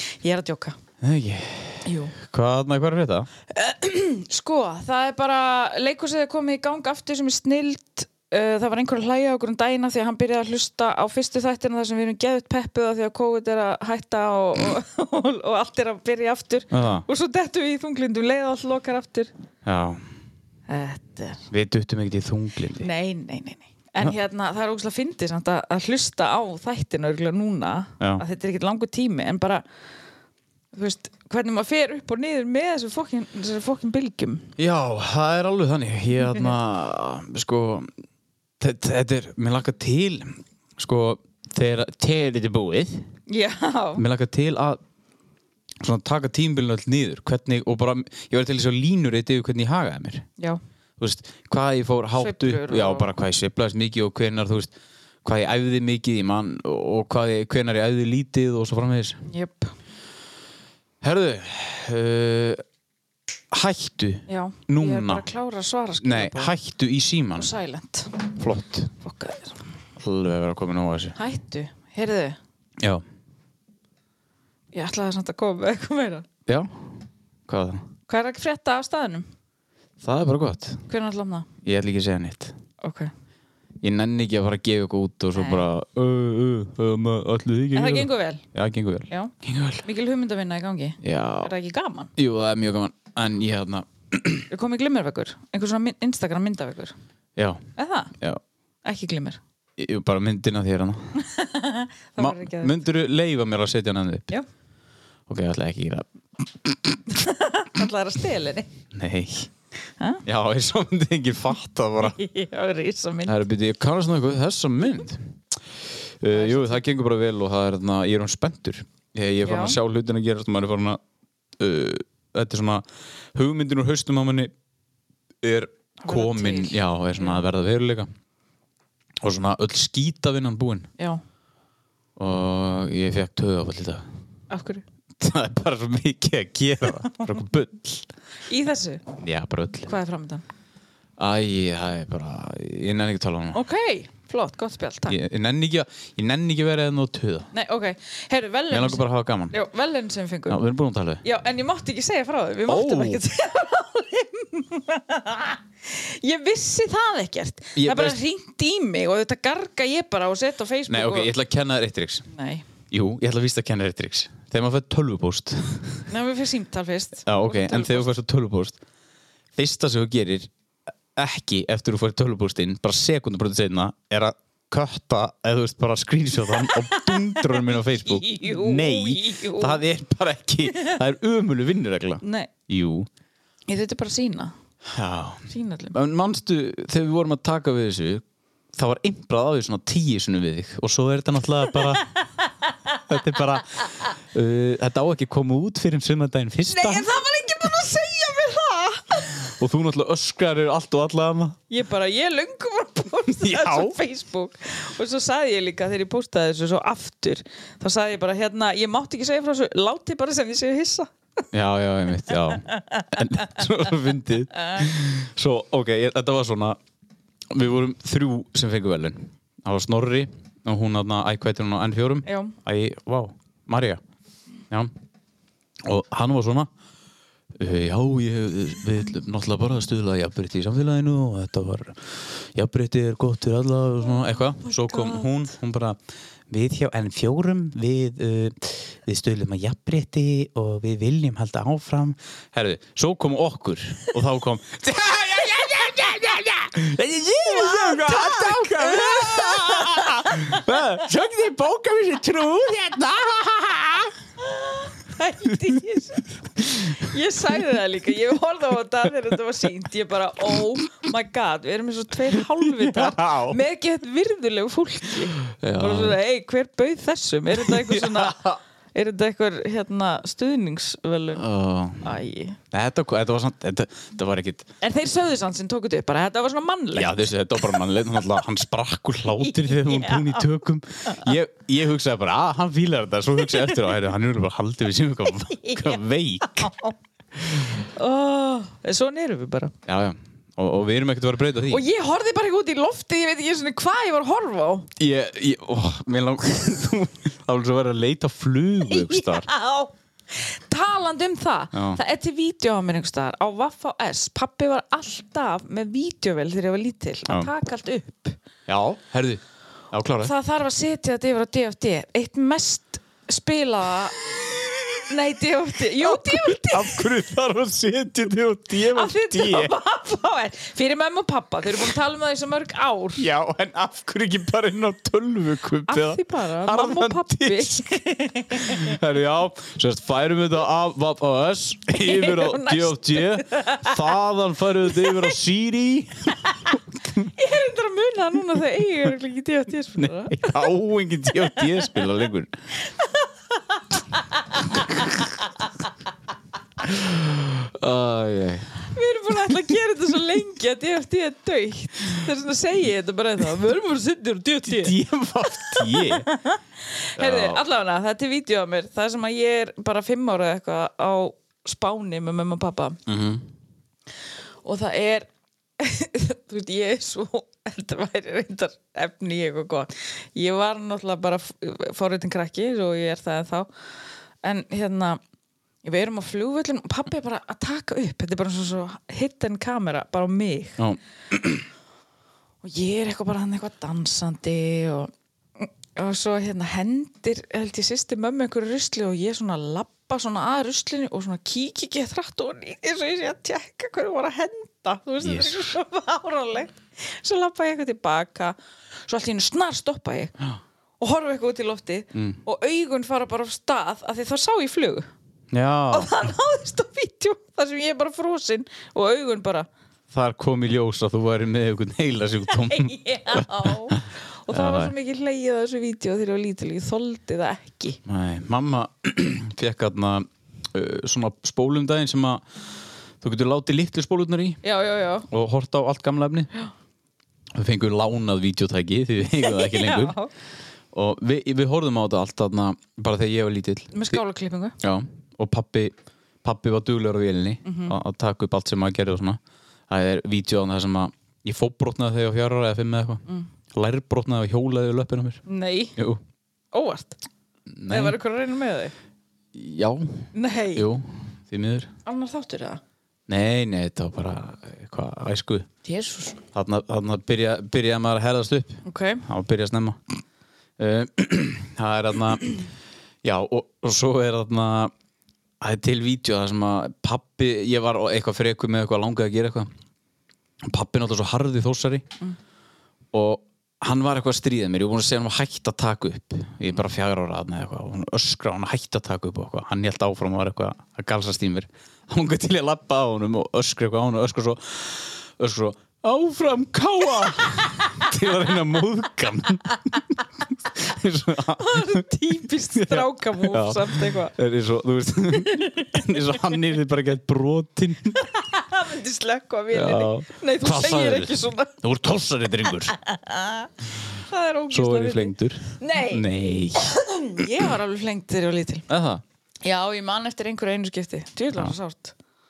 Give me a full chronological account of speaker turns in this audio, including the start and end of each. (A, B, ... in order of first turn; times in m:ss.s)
0:00.2-0:00.8 A
0:01.0-0:03.3 B
0:01.8-0:02.1 A
0:03.5-0:19.3 A
0:16.7-0:17.0 B
0:19.6-0:20.0 B
0:20.7-0:21.4 A
0:21.5-0:22.9 B
0:22.8-0:29.6 A
0:30.7-0:34.5 A
0:34.6-0:37.9 B
0:38.6-0:43.1 B
0:43.3-0:44.0 A
0:44.0-0:44.8 B
0:45.8-0:50.2 B
0:51.0-0:54.7 B
0:52.2-0:53.1 A
0:55.2-0:59.2 B
0:59.3-0:59.7 A
1:01.0-1:02.6 B
1:03.5-1:05.3 B
1:04.3-1:06.6 A
1:06.0-1:07.5 B
1:07.4-1:08.2 A
1:08.4-1:08.9 B
1:09.0-1:09.6 A
1:10.0-1:11.2 B
1:11.2-1:12.4 A
1:14.7-1:16.2 A
1:16.5-1:16.8 B
1:17.5-1:17.8 B
1:18.1-1:19.2 A
1:20.0-1:20.8 B
1:20.9-1:21.5 A
1:21.6-1:22.5 B
1:22.8-1:23.1 A
1:23.8-1:29.8 B
1:25.3-1:25.6 A
1:27.7-1:28.4 A
1:29.8-1:32.1 A
1:31.0-1:31.5 B
1:32.2-1:34.5 B
1:34.5-1:36.9 A
1:37.4-1:37.6 B
1:37.8-1:38.1 A
1:38.8-1:39.4 A
1:39.8-1:41.0 B
1:41.2-1:42.7 A
1:42.2-1:44.3 B
1:45.3-1:47.0 B
1:47.1-1:48.7 A
1:48.9-1:49.5 B
1:50.2-1:52.2 B
1:52.0-1:53.4 A
1:53.2-1:55.3 B
1:56.2-2:01.0 B
1:56.3-1:56.8 A
1:59.4-1:59.8 A
2:01.6-2:04.5 B
2:05.4-2:08.1 B
2:06.0-2:07.4 A
2:09.2-2:10.9 B
2:12.2-2:14.0 B
2:14.5-2:14.8 A
2:15.2-2:18.1 B
2:18.5-2:19.0 A
2:19.2-2:19.9 B
2:19.8-2:20.4 A
2:21.2-2:23.6 B
2:23.5-2:25.2 A
2:25.1-2:27.5 B
2:27.5-2:30.6 A
2:28.7-2:29.6 B
2:30.5-2:31.2 B
2:31.2-2:41.3 A
2:32.7-2:33.2 B
2:37.8-2:38.2 B
2:40.9-2:42.2 B
2:42.3-2:42.6 A
2:42.9-2:46.1 B
2:46.1-2:48.1 A
2:47.2-2:48.8 B
2:49.6-2:50.5 B
2:51.2-3:03.1 B
2:56.6-2:59.8 A
3:02.2-3:02.5 A
3:03.7-3:04.5 A
3:04.9-3:12.0 B
3:05.5-3:05.9 A
3:12.0-3:12.9 A
3:13.1-3:17.1 B
3:16.7-3:19.5 A
3:19.5-3:21.6 B
3:21.7-3:31.1 A
3:23.4-3:24.0 B
3:31.5-3:36.8 B
3:32.5-3:33.4 A
3:37.5-3:44.0 B
3:42.2-3:42.5 A
3:45.8-3:46.7 B
3:47.6-3:56.0 B
3:54.7-3:55.3 A
3:56.5-4:14.1 B
4:07.4-4:10.6 A
4:14.5-4:31.4 A
4:22.6-4:23.6 B
4:25.4-4:26.2 B
4:27.5-4:28.6 B
4:31.4-4:32.1 B
4:32.0-4:32.6 A
4:32.7-4:34.7 B
4:34.8-4:37.8 A
4:36.9-4:46.7 B
4:39.3-4:40.4 A
4:45.5-4:46.9 A
4:47.5-4:47.8 B
4:47.8-4:49.7 A
4:49.8-4:51.8 B
4:51.7-4:54.9 A
4:55.0-4:59.5 B
4:58.8-5:08.4 A
5:01.7-5:02.0 B
5:08.7-5:10.3 B
5:10.2-5:14.2 A
5:15.0-5:17.1 A
5:16.0-5:19.7 B
5:18.8-5:23.3 A
5:23.2-5:37.3 B
5:25.9-5:28.9 A
5:31.9-5:34.0 A
5:34.9-5:35.3 A
5:37.2-5:40.7 A
5:40.0-5:42.5 B
5:41.6-5:41.9 A
5:42.9-5:45.3 A
5:46.8-5:48.7 B
5:48.9-6:03.0 A
5:54.6-5:56.3 B
5:57.2-5:57.6 B
6:03.0-6:03.4 B
6:04.6-6:05.3 A
6:05.8-6:13.7 A
6:14.4-6:15.2 A
6:15.8-6:20.8 A
6:20.8-6:21.6 B
6:22.6-6:38.6 A
6:35.2-6:35.7 B
6:39.1-6:40.3 A
6:41.0-6:45.1 A
6:45.5-6:46.1 B
6:45.9-6:49.7 A
6:50.1-6:54.9 B
6:52.5-6:58.0 A
6:58.0-7:02.4 B
7:03.2-7:04.6 B
7:04.6-7:05.3 A
7:05.3-7:06.5 B
7:07.5-7:10.1 B
7:09.4-7:10.3 A
7:10.9-7:14.2 B
7:13.9-7:14.8 A
7:14.8-7:25.4 B
7:17.6-7:18.0 A
7:25.4-7:26.0 A
7:26.0-7:26.2 B
7:26.7-7:27.2 A
7:27.7-7:28.2 B
7:27.9-7:28.9 A
7:29.5-7:31.9 B
7:30.3-7:30.9 A
7:32.0-7:32.8 A
7:33.3-7:35.7 B
7:35.8-7:36.4 A
7:36.5-7:40.0 B
7:38.8-7:39.2 A
7:40.8-7:42.5 B
7:43.2-7:44.9 B
7:45.6-7:49.7 B
7:50.6-7:52.1 B
7:53.1-8:12.0 B
8:11.6-8:14.3 A
8:12.7-8:18.2 B
8:15.3-8:16.4 A
8:18.1-8:21.7 A
8:19.7-8:23.0 B
8:22.9-8:23.7 A
8:24.3-8:28.9 A
8:24.7-8:27.6 B
8:28.9-8:29.2 B
8:29.6-8:32.1 A